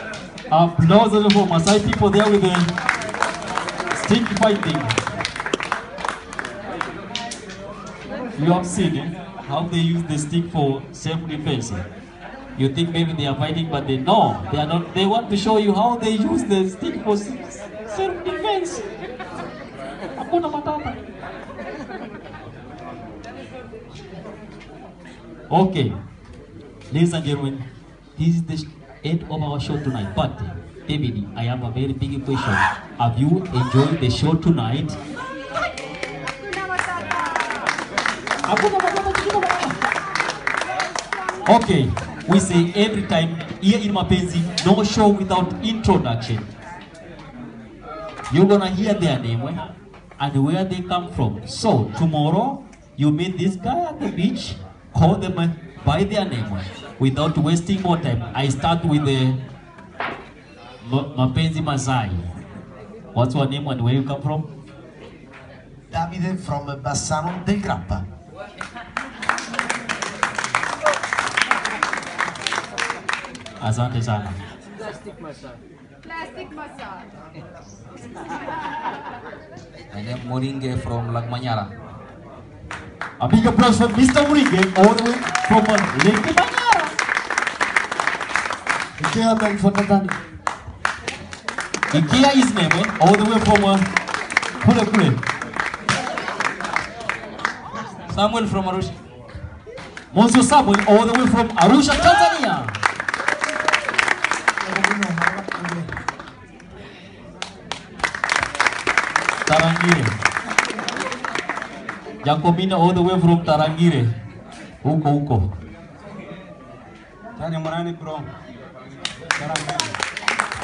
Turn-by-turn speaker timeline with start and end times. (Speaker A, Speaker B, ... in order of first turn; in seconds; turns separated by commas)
Speaker A: 0.5-2.7, Speaker A: 3.9-5.0, Speaker A: 8.4-11.8, Speaker A: 12.6-18.9, Speaker A: 20.2-21.0, Speaker A: 25.5-25.9, Speaker A: 26.9-27.6, Speaker A: 28.2-35.0, Speaker A: 38.5-39.8, Speaker A: 41.5-46.5, Speaker A: 48.3-49.6, Speaker A: 50.2-59.4, Speaker A: 60.8-62.2, Speaker A: 63.1-64.5, Speaker B: 65.9-68.0, Speaker A: 73.6-74.4, Speaker C: 79.9-81.7, Speaker A: 83.2-86.9, Speaker B: 89.0-90.2, Speaker A: 91.9-93.8, Speaker A: 94.6-95.2, Speaker C: 98.1-99.0, Speaker A: 100.1-102.8, Speaker B: 105.0-105.4, Speaker A: 109.5-110.1, Speaker A: 112.2-114.1, Speaker A: 114.8-115.5, Speaker B: 117.4-118.3, Speaker B: 119.4-119.9